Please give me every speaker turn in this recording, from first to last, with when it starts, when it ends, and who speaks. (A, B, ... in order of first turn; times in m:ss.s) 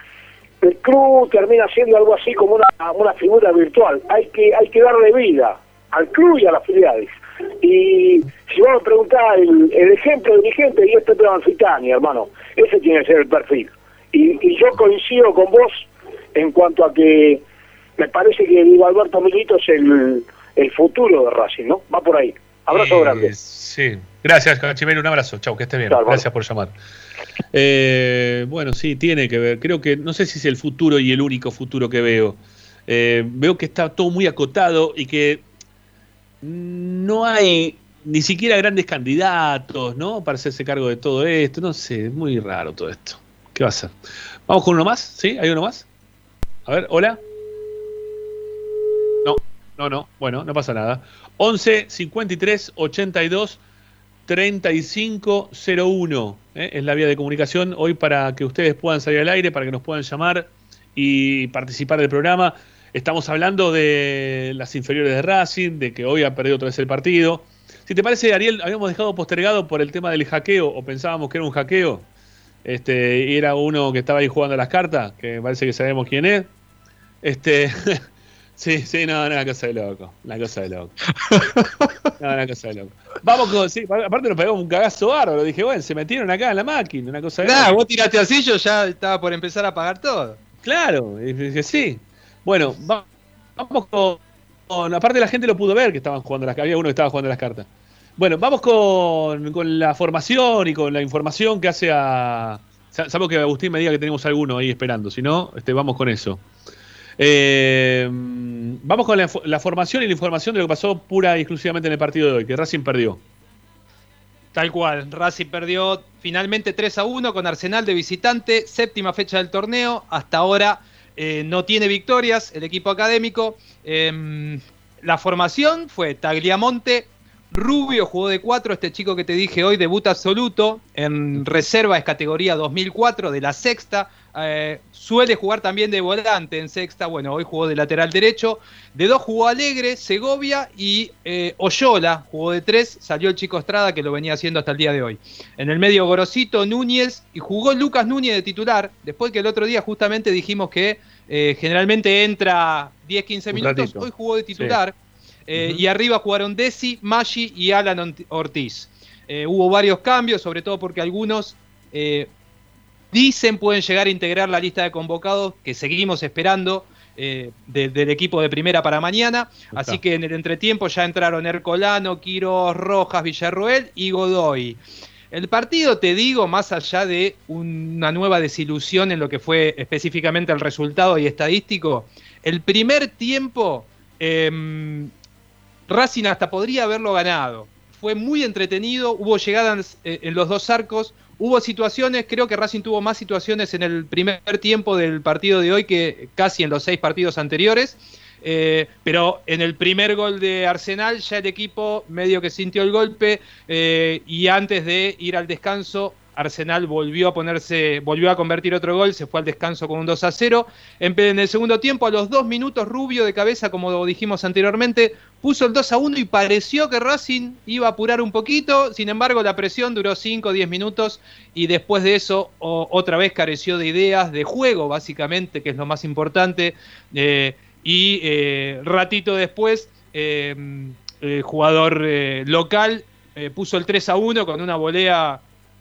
0:00.6-0:17.4 A
0:18.0-0:23.3 A
0:22.7-0:26.7 B
0:25.9-0:26.2 A
0:27.5-0:35.4 B
0:36.4-0:43.9 B
0:44.5-0:45.9 B
0:46.6-0:47.2 B
0:49.2-0:53.6 B
0:54.3-1:12.0 B
1:12.6-1:16.5 B
1:17.2-1:18.0 B
1:18.6-1:20.9 B
1:22.2-1:27.8 B
1:27.4-1:30.4 C
1:30.6-1:33.0 B
1:33.6-1:46.4 B
1:47.2-1:53.2 B
1:54.5-2:34.9 C
2:33.5-2:34.8 B
2:35.5-2:42.3 C
2:35.6-2:35.8 B
2:43.1-2:54.8 C
2:49.7-2:50.0 B
2:55.3-3:05.1 C
3:05.9-3:55.4 C